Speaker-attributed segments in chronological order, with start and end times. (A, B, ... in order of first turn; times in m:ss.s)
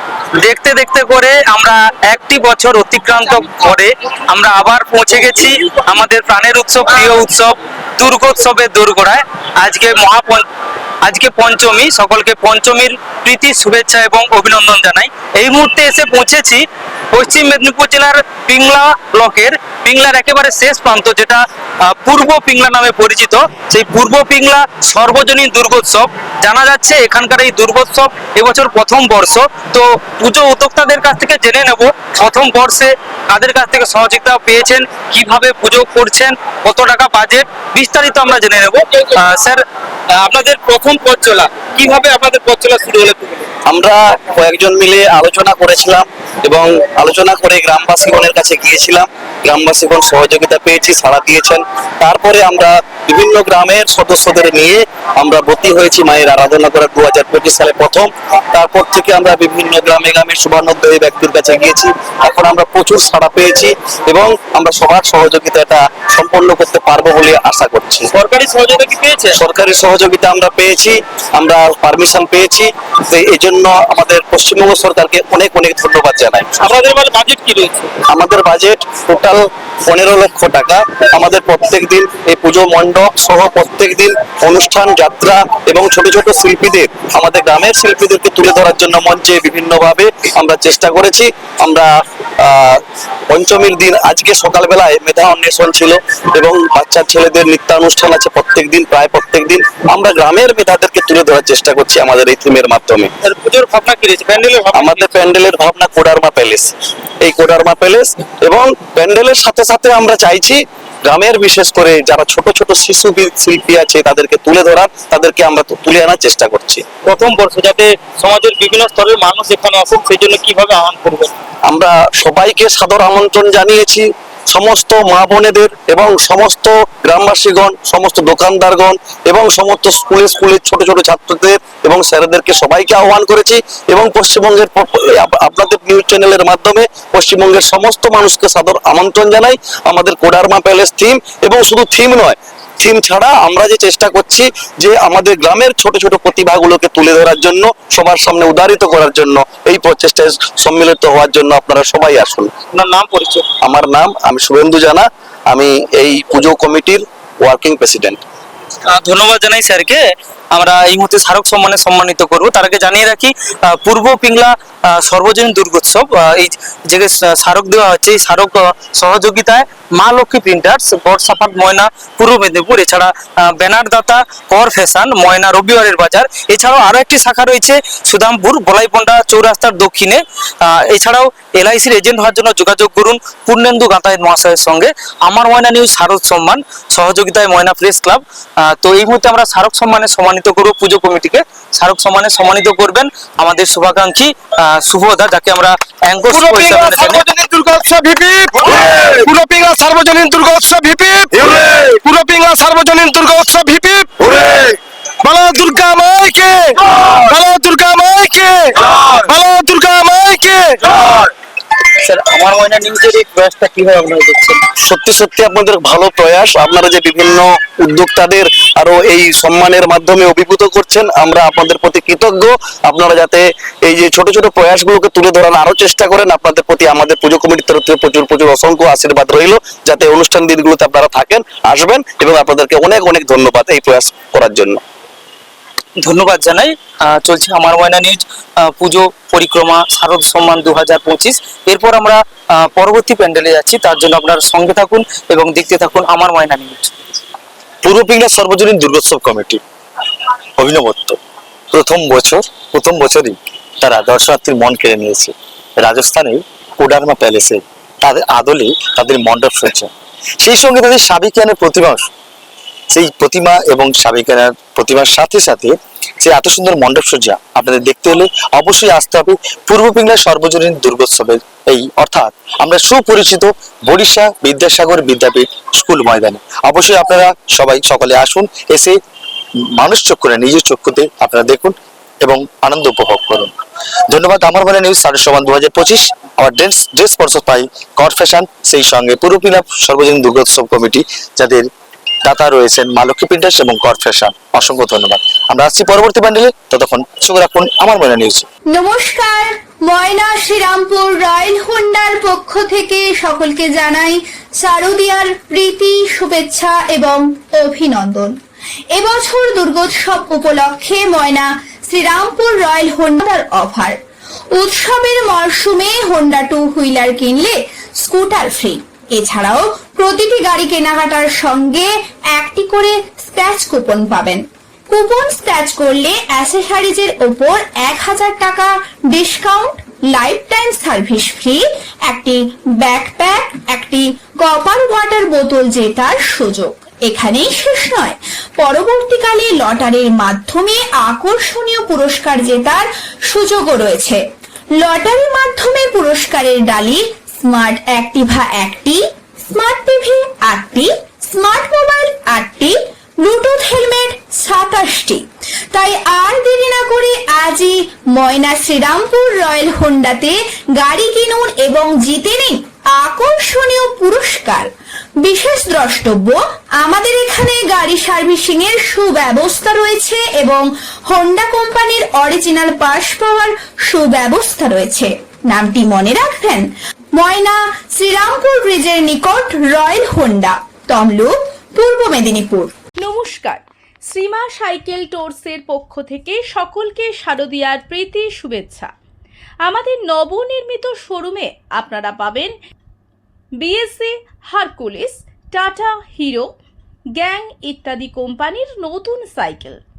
0:00.4-0:10.4 A
0:11.0-0:43.4 A
0:43.7-1:08.1 B
1:08.1-1:09.4 A
1:09.3-1:16.6 B
1:16.6-1:17.9 A
1:18.1-1:43.1 B
1:43.2-1:45.2 A
1:44.7-1:56.8 B
1:57.0-2:01.3 A
2:01.7-2:32.5 B
2:32.7-2:33.5 A
2:33.6-2:38.2 B
2:38.8-3:17.2 A
3:16.3-3:30.8 C
3:32.0-3:34.6 A
3:34.8-3:54.8 B
3:56.0-4:06.9 A
4:07.8-4:09.6 D
4:10.6-4:11.2 D
4:11.7-4:22.1 D
4:22.9-4:39.0 D
4:39.8-4:43.5 D
4:44.1-4:51.7 D
4:52.2-4:58.5 D
4:58.7-5:08.3 E
5:08.9-5:14.0 E
5:14.5-5:44.2 E
5:44.8-6:04.7 E
6:05.2-6:22.7 E
6:23.0-6:28.9 F
6:29.6-6:32.5 F
6:33.6-6:36.5 F
6:37.2-6:39.8 F